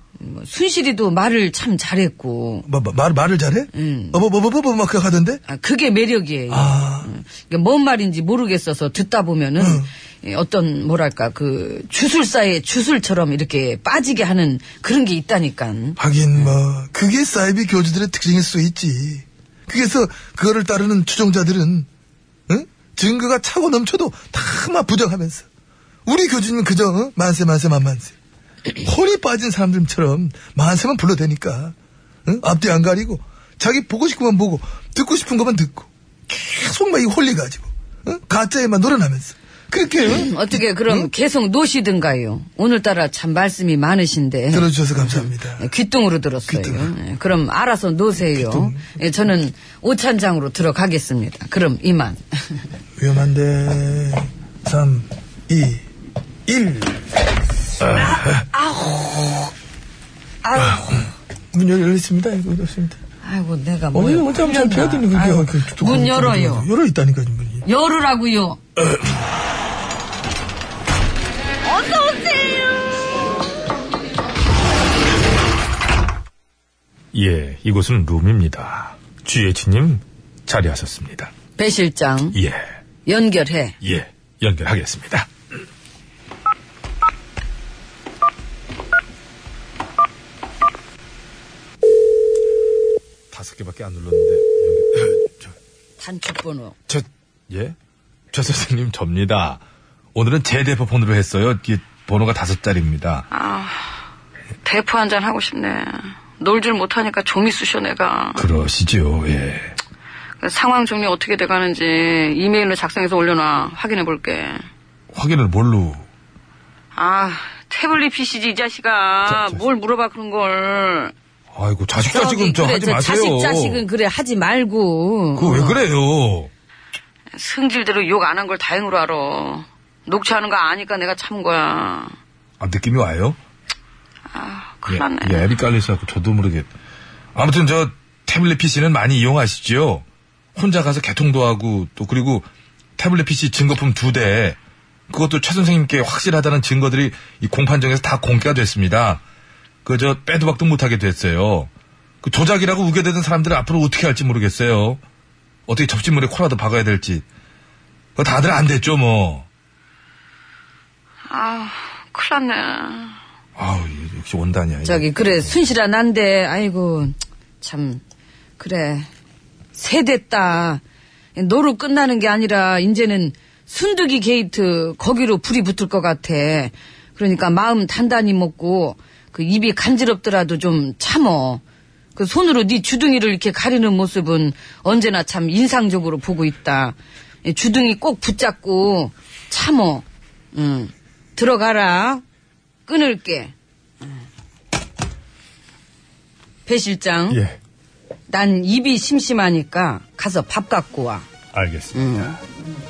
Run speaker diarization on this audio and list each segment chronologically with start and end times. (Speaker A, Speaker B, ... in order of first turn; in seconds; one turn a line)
Speaker A: 0.2-2.7
Speaker B: 2.6-5.4
Speaker A: 3.7-4.2
Speaker A: 5.5-16.5
Speaker B: 6.5-7.1
Speaker B: 9.6-9.9
Speaker B: 16.0-21.9
Speaker B: 22.5-25.4
Speaker B: 26.1-28.1
Speaker B: 28.8-40.3
Speaker A: 40.1-52.6
Speaker B: 44.5-45.6
Speaker B: 46.5-46.9
Speaker B: 48.3-48.8
Speaker B: 53.0-55.8
Speaker B: 56.5-57.0
Speaker A: 57.9-59.5
Speaker A: 60.4-61.0
Speaker B: 61.5-63.0
Speaker A: 63.2-66.7
Speaker B: 63.9-67.6
Speaker A: 67.6-68.6
Speaker B: 68.8-69.0
Speaker A: 71.6-72.8
Speaker C: 77.1-81.3
Speaker A: 81.5-82.4
Speaker C: 82.3-82.6
Speaker A: 83.0-83.8
Speaker C: 83.8-85.3
Speaker C: 93.3-95.5
Speaker A: 96.0-96.7
Speaker C: 96.9-97.7
Speaker C: 98.3-99.6
Speaker C: 100.1-103.3
Speaker A: 103.3-103.9
Speaker A: 104.6-108.5
Speaker C: 108.3-109.7
Speaker A: 110.4-114.7
Speaker C: 115.1-116.0
Speaker A: 117.0-121.1
Speaker C: 119.3-119.6
Speaker C: 121.5-123.8
Speaker A: 122.0-125.8
Speaker C: 125.3-126.5
Speaker A: 127.3-132.1
Speaker C: 132.6-133.4
Speaker A: 134.3-135.6
Speaker C: 134.9-136.7
Speaker C: 137.3-140.0
Speaker C: 140.5-142.4
Speaker C: 143.0-144.6
Speaker C: 145.1-149.2
Speaker C: 149.8-151.7
Speaker C: 152.2-155.0
Speaker C: 155.7-157.2
Speaker C: 158.2-159.4
Speaker A: 161.3-163.2
Speaker C: 163.6-165.5
Speaker A: 164.8-168.0
Speaker A: 168.6-169.1
Speaker A: 169.8-170.8
Speaker A: 171.3-181.6
Speaker A: 182.2-192.2
Speaker A: 192.9-193.5
Speaker A: 196.7-197.4
Speaker C: 197.3-197.6
Speaker A: 198.3-201.2
Speaker C: 201.5-202.3
Speaker A: 201.9-202.4